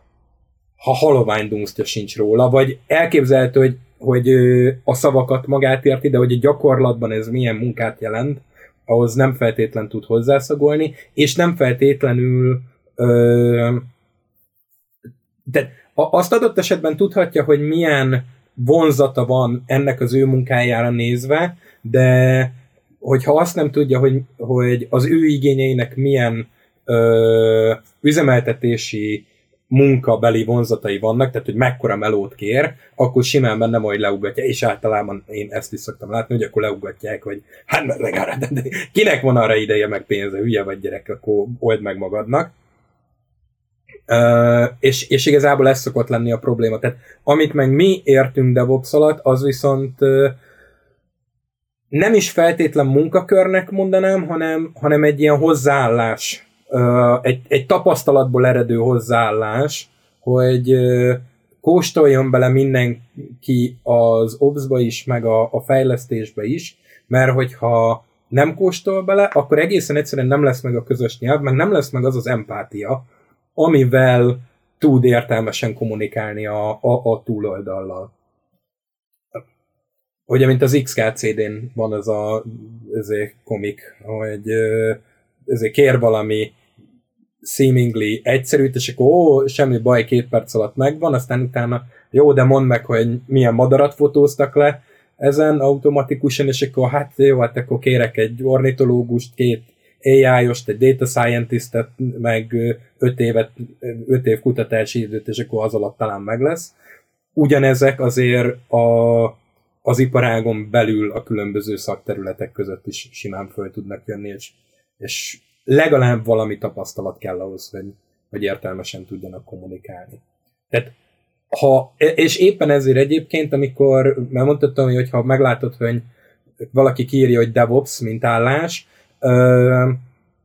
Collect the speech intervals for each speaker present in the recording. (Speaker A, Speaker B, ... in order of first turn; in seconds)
Speaker A: 0.8-13.8, 15.5-42.5, 44.1-50.4, 51.9-78.1, 80.3-86.5, 87.4-106.7, 107.3-120.9, 121.5-126.0, 126.7-130.0